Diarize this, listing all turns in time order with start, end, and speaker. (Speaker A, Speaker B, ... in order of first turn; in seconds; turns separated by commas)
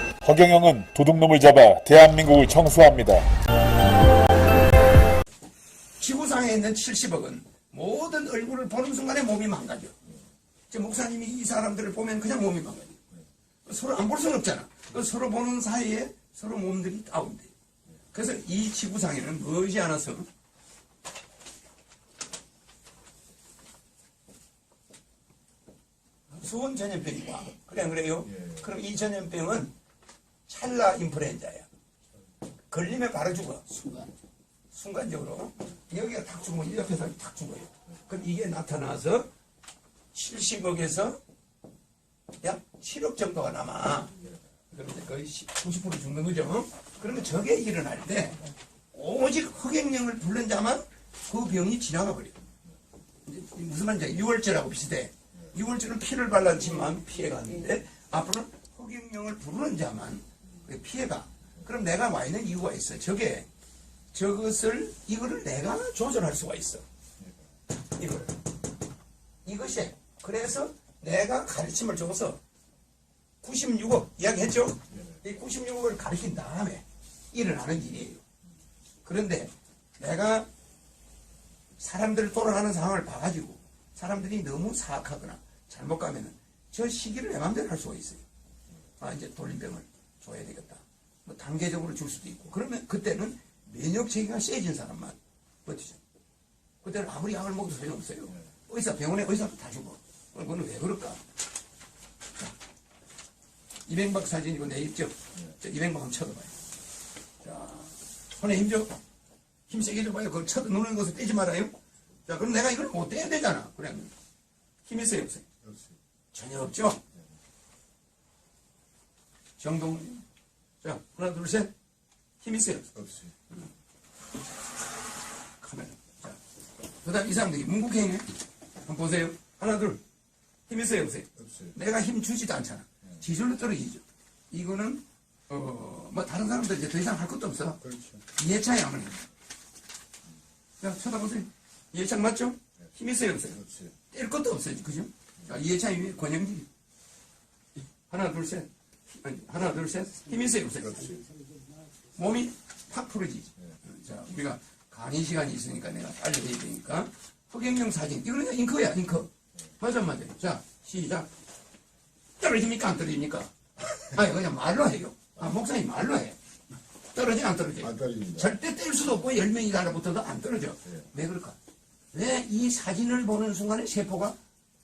Speaker A: 0.2-3.3, Speaker B: 6.0-10.0, Speaker B: 10.7-13.0, Speaker B: 13.7-17.5, Speaker B: 18.1-20.3, Speaker B: 26.3-29.7, Speaker B: 30.5-31.7, Speaker B: 32.7-34.1, Speaker B: 34.7-39.3, Speaker B: 40.1-41.2, Speaker B: 42.4-44.2, Speaker B: 44.7-52.4, Speaker B: 53.3-63.5, Speaker B: 64.1-66.8, Speaker B: 67.8-68.4, Speaker B: 69.5-72.4, Speaker B: 73.4-78.2, Speaker B: 79.0-80.5, Speaker B: 81.8-88.2, Speaker B: 89.0-96.0, Speaker B: 96.8-101.2, Speaker B: 103.9-106.5, Speaker B: 107.4-109.0, Speaker B: 109.7-111.8, Speaker B: 112.3-114.1, Speaker B: 114.8-115.5, Speaker C: 115.6-116.0, Speaker B: 116.3-117.0, Speaker B: 119.6-120.2, Speaker B: 120.8-121.7, Speaker B: 122.4-122.9, Speaker C: 123.0-123.3, Speaker B: 125.6-126.4, Speaker B: 127.0-128.3, Speaker B: 128.8-130.0, Speaker B: 130.7-137.8, Speaker C: 131.4-131.7, Speaker C: 137.8-138.2, Speaker B: 138.3-139.2, Speaker B: 140.8-146.7, Speaker C: 143.6-144.0, Speaker B: 148.0-151.1, Speaker C: 150.9-151.3, Speaker B: 152.1-161.3, Speaker B: 162.4-166.4, Speaker B: 167.1-171.6, Speaker C: 167.8-168.5, Speaker B: 172.1-174.4